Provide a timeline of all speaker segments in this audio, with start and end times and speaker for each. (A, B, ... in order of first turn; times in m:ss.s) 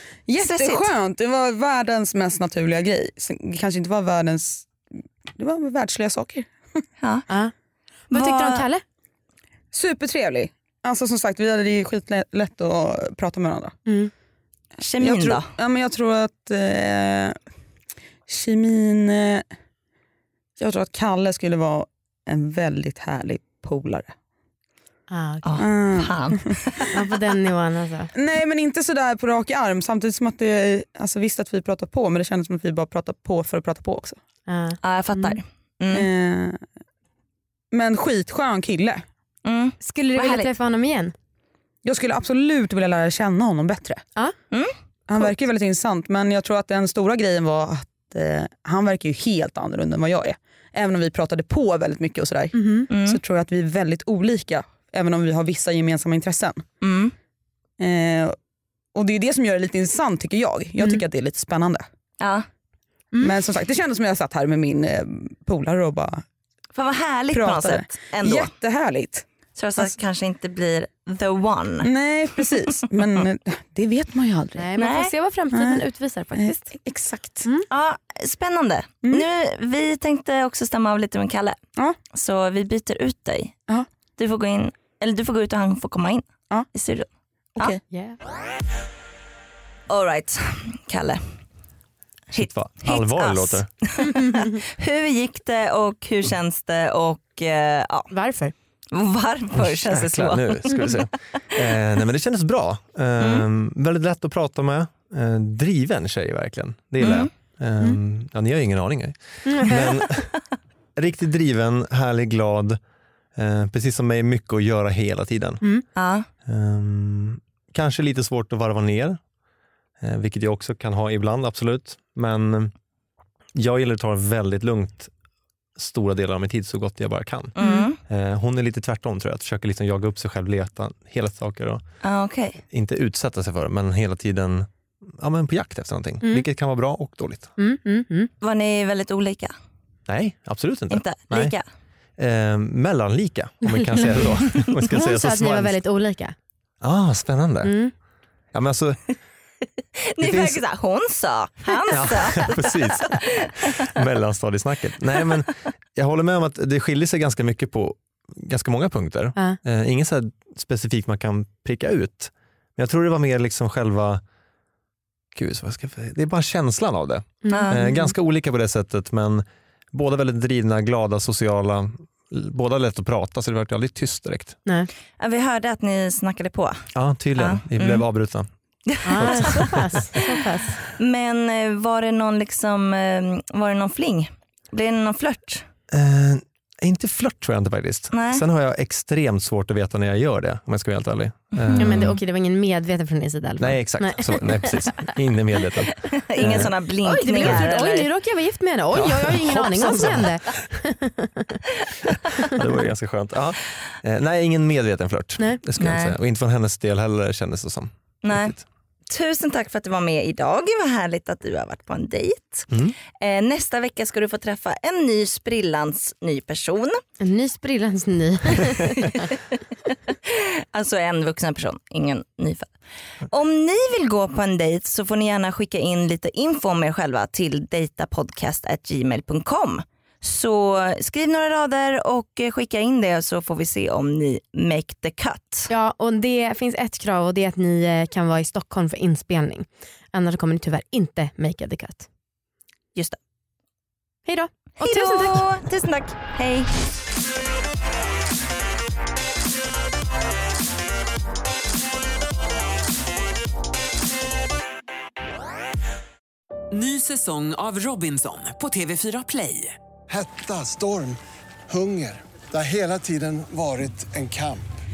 0:00.3-0:04.7 A
0:00.4-0:00.9 B
0:05.4-0:06.5 A
0:07.0-0:07.3 B
0:08.1-0:08.8 C
0:08.1-0:08.7 B
0:09.7-0:13.8 A
0:13.9-0:14.1 C
0:14.8-0:15.5 B
0:15.0-0:17.4 A
0:18.3-0:19.4 A
0:20.6-0:24.1 A
0:25.1-0:25.6 C
0:25.4-0:26.9 B
0:25.6-0:26.5 A
0:26.9-0:28.1 C
0:28.1-0:34.2 A
0:34.5-0:35.4 C
0:34.8-0:36.1 B
0:35.9-0:36.6 A
0:37.7-0:39.0 A
0:39.4-0:40.5 B
0:39.8-0:41.1 C
0:41.8-0:44.0 A
0:44.5-0:45.3 B
0:45.1-0:56.6 A
0:52.5-0:52.9 C
0:52.9-0:53.2 B
0:56.8-0:57.1 B
0:57.8-0:58.4 A
0:58.9-1:01.9 A
1:02.2-1:02.4 B
1:03.2-1:06.2 A
1:06.7-1:08.5 B
1:07.3-1:09.2 A
1:09.6-1:11.9 B
1:11.8-1:14.7 A
1:14.6-1:16.7 C
1:14.8-1:15.1 B
1:15.5-1:15.8 A
1:16.4-1:17.4 A
1:17.7-1:21.6 B
1:22.1-1:23.6 B
1:24.2-1:27.8 B
1:27.9-1:28.2 C
1:29.9-1:31.2 B
1:32.3-1:33.7 D
1:32.3-1:38.1 B
1:34.2-1:34.5 C
1:38.1-1:38.5 C
1:38.9-1:41.0 B
1:39.5-1:50.3 D
1:43.2-1:43.4 B
1:47.0-1:47.3 B
1:49.4-1:49.8 C
1:51.0-1:52.8 D
1:53.4-1:55.6 D
1:55.9-1:56.3 B
1:56.4-1:59.2 D
2:00.0-2:02.7 D
2:03.6-2:05.1 D
2:05.8-2:11.8 D
2:07.6-2:08.0 B
2:07.6-2:07.9 C
2:12.0-2:12.6 B
2:12.7-2:17.5 D
2:17.6-2:18.3 C
2:18.4-2:19.5 B
2:20.1-2:21.5 D
2:20.9-2:21.7 B
2:22.2-2:25.8 D
2:23.7-2:26.4 C
2:26.8-2:27.7 D
2:27.6-2:27.9 C
2:28.5-2:29.0 D
2:30.1-2:33.3 B
2:30.2-2:30.6 D
2:31.9-2:44.2 D
2:45.3-2:54.6 D
2:47.4-2:48.1 C
2:47.5-2:47.9 B
2:55.2-2:56.8 B
2:56.9-2:58.5 D
2:57.4-2:58.0 B
2:58.9-2:59.6 B
2:59.0-3:00.8 C
2:59.1-3:00.1 D
3:01.0-3:05.7 B
3:05.9-3:12.2 D
3:08.1-3:08.4 B
3:11.6-3:11.9 B
3:11.8-3:15.1 C
3:13.6-3:16.7 D
3:16.0-3:18.1 B
3:16.4-3:21.6 C
3:17.4-3:17.6 D
3:18.9-3:20.3 D
3:19.7-3:20.1 B
3:22.4-3:28.6 D
3:25.8-3:26.2 B
3:28.2-3:28.6 B
3:29.1-3:37.0 B
3:32.7-3:32.9 D
3:37.2-3:39.3 C
3:40.1-3:42.7 B
3:43.3-3:55.7 B
3:55.7-4:02.1 C
4:04.3-4:05.4 C
4:04.8-4:06.7 B
4:16.7-4:19.8 E
4:20.1-4:24.6 F